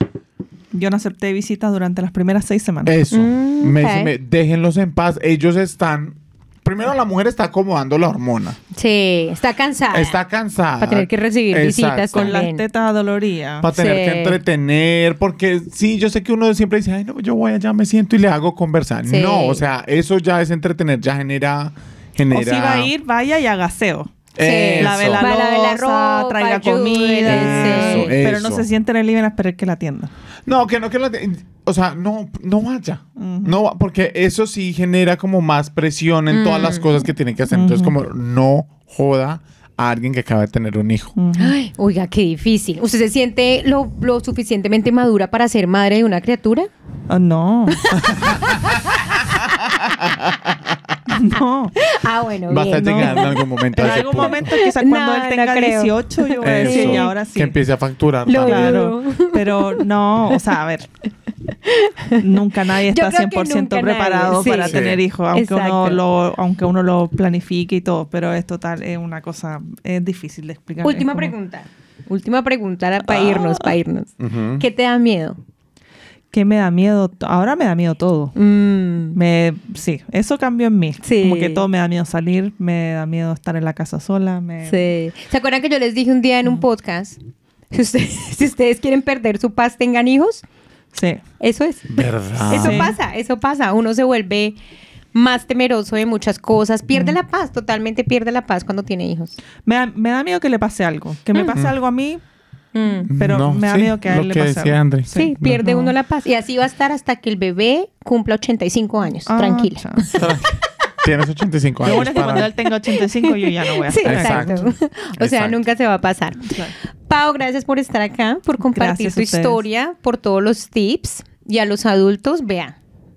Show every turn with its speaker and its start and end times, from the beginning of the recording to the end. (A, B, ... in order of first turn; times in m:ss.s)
0:00.7-0:03.0 A
0:02.9-0:08.6 B
0:03.1-0:04.1 C
0:08.7-0:10.2 C
0:09.9-0:12.4 B
0:10.8-0:12.6 C
0:12.1-0:13.7 A
0:13.6-0:22.9 B
0:13.7-0:14.4 C
0:19.0-0:19.6 C
0:22.3-0:24.2 A
0:24.4-0:25.2 B
0:24.4-0:28.2 C
0:24.8-0:30.1 A
0:27.2-0:28.7 B
0:30.5-0:41.1 B
0:33.2-0:33.6 A
0:36.3-0:37.0 C
0:37.5-0:38.0 A
0:41.2-0:41.6 A
0:41.4-0:46.7 C
0:47.1-0:47.8 A
0:47.8-0:50.2 C
0:47.9-0:51.0 B
0:51.1-0:51.7 A
0:51.3-0:57.1 C
0:52.5-0:54.5 B
0:52.7-0:57.6 A
0:56.4-0:58.9 B
0:58.3-0:59.8 C
0:58.4-1:00.9 A
1:01.5-1:06.0 C
1:02.2-1:11.3 A
1:04.7-1:05.0 B
1:10.8-1:15.4 C
1:14.2-1:14.6 B
1:16.3-1:18.4 A
1:18.4-1:19.2 C
1:19.2-1:24.8 A
1:21.0-1:21.6 C
1:24.6-1:27.2 C
1:27.7-1:30.4 C
1:30.9-1:31.2 A
1:31.4-1:34.6 C
1:31.9-1:32.9 B
1:32.5-1:33.0 A
1:35.1-1:39.4 C
1:39.6-1:42.2 A
1:42.7-1:43.1 C
1:43.1-1:45.6 B
1:43.1-1:45.9 A
1:45.1-1:50.3 C
1:49.3-1:50.1 A
1:50.1-1:52.5 B
1:51.8-1:54.7 A
1:52.2-2:02.8 C
1:54.0-1:55.6 B
1:56.5-1:56.8 A
1:58.7-1:59.6 A